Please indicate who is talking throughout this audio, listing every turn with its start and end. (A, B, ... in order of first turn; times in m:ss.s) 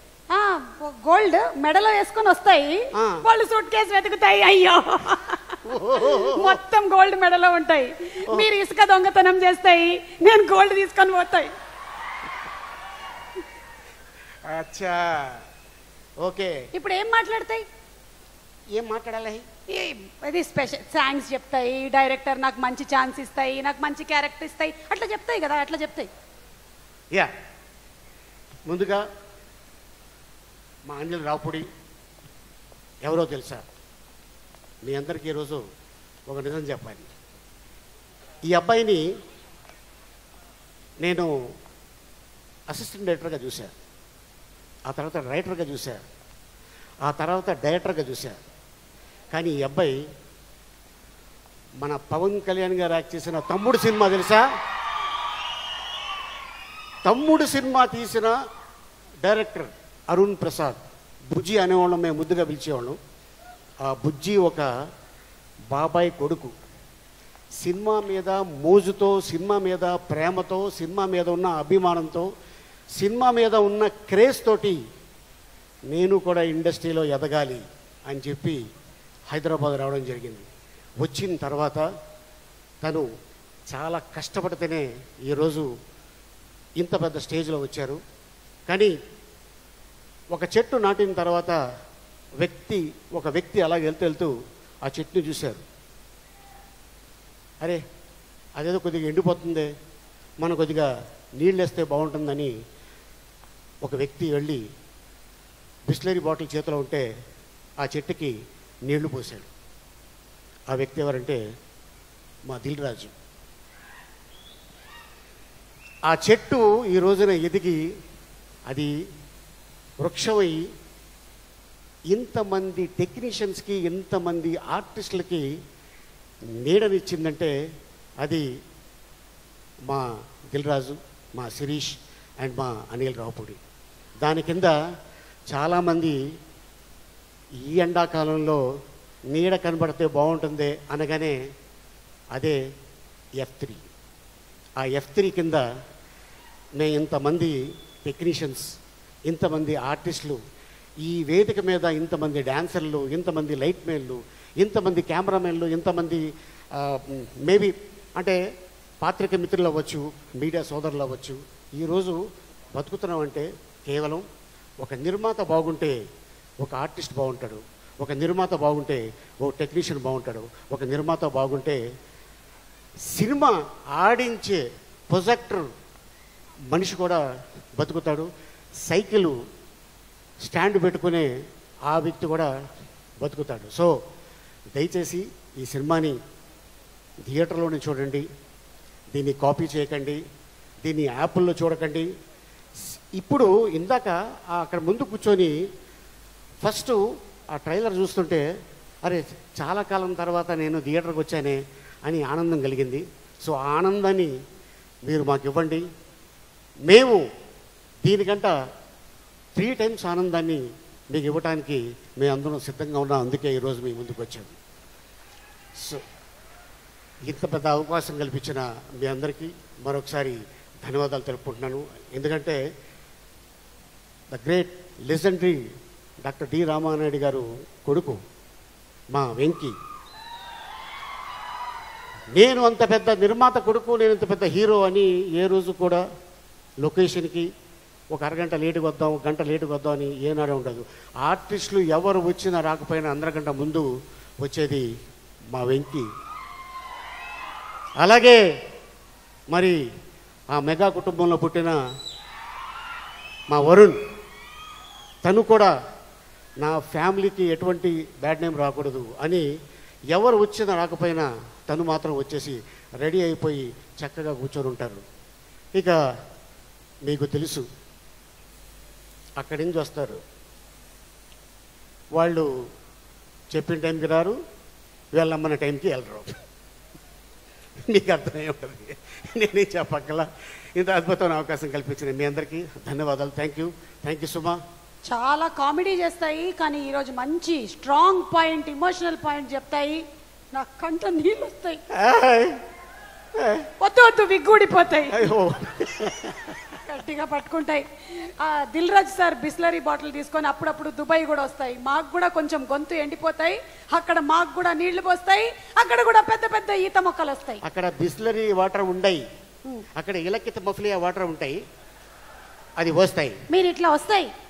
0:00.3-0:11.5 A
0:02.9-0:03.2 B
0:05.6-0:06.6 B
0:14.4-0:15.4 B
0:16.2-0:16.6 B
0:16.7-0:17.6 A
0:18.7-0:19.4 B
0:19.7-0:26.1 A
0:28.7-0:29.0 B
0:30.8-0:31.6 B
0:33.0-0:33.6 B
0:34.8-0:35.6 B
0:36.3-0:37.1 B
0:38.5-0:39.0 B
0:41.0-0:41.3 B
0:42.7-0:43.7 B
0:44.9-0:46.0 B
0:47.0-0:48.4 B
0:49.3-0:49.9 B
0:51.8-0:54.4 B
0:57.0-0:58.3 B
0:59.2-1:00.8 B
1:01.3-1:03.0 B
1:03.8-1:04.7 B
1:05.7-1:06.5 B
1:07.6-1:12.2 B
1:13.0-1:14.8 B
1:15.9-1:18.6 B
1:19.3-1:20.4 B
1:21.0-1:21.8 B
1:23.7-1:25.7 B
1:26.8-1:28.0 B
1:28.7-1:28.9 B
1:30.3-1:31.6 B
1:32.4-1:34.3 B
1:34.8-1:35.6 B
1:38.6-1:39.7 B
1:40.4-1:40.9 B
1:41.4-1:42.5 B
1:43.8-1:44.6 B
1:45.9-1:47.0 B
1:47.8-1:48.3 B
1:48.9-1:49.5 B
1:50.7-1:51.4 B
1:52.5-1:53.1 B
1:56.1-1:57.8 B
2:00.0-2:00.6 B
2:02.1-2:05.4 B
2:06.6-2:07.5 B
2:09.9-2:13.6 B
2:14.2-2:14.7 B
2:15.5-2:16.2 B
2:17.7-2:18.6 B
2:19.3-2:21.4 B
2:23.4-2:23.8 B
2:24.8-2:25.6 B
2:26.8-2:28.6 B
2:29.3-2:30.4 B
2:31.0-2:38.4 B
2:39.0-2:42.2 B
2:42.7-2:44.2 B
2:44.8-2:45.9 B
2:46.6-2:51.8 B
2:53.1-2:55.7 B
2:56.7-2:57.2 B
2:57.8-2:58.3 B
2:58.8-2:59.3 B
3:00.4-3:01.3 B
3:01.9-3:02.5 B
3:03.2-3:03.9 B
3:04.8-3:06.2 B
3:07.3-3:08.2 B
3:09.1-3:10.2 B
3:10.8-3:12.1 B
3:13.2-3:15.5 B
3:16.6-3:17.0 B
3:17.5-3:18.4 B
3:19.0-3:24.3 B
3:25.1-3:25.8 B
3:26.9-3:27.2 B
3:28.0-3:28.5 B
3:29.6-3:30.6 B
3:31.1-3:34.5 B
3:37.2-3:42.6 B
3:44.3-3:45.6 B
3:46.2-3:48.2 B
3:49.1-3:49.7 B
3:52.3-3:56.0 B
3:56.8-3:57.5 B
3:58.1-4:03.9 B
4:04.4-4:04.8 B
4:05.5-4:06.0 B
4:08.0-4:08.4 B
4:10.5-4:11.8 B
4:13.5-4:14.0 B
4:15.2-4:15.7 B
4:16.6-4:19.4 B
4:20.1-4:25.0 B
4:27.0-4:27.6 B
4:29.4-4:30.2 B
4:32.1-4:32.5 B
4:33.5-4:34.3 B
4:35.1-4:36.3 B
4:37.9-4:44.6 B
4:45.0-4:51.8 A
4:51.9-4:52.6 B
4:53.4-4:53.7 B
4:53.8-4:55.3 A
4:55.1-4:56.6 B
4:56.8-5:07.6 A
5:07.6-5:09.2 B
5:10.0-5:11.6 B
5:12.8-5:13.4 B
5:13.5-5:14.3 A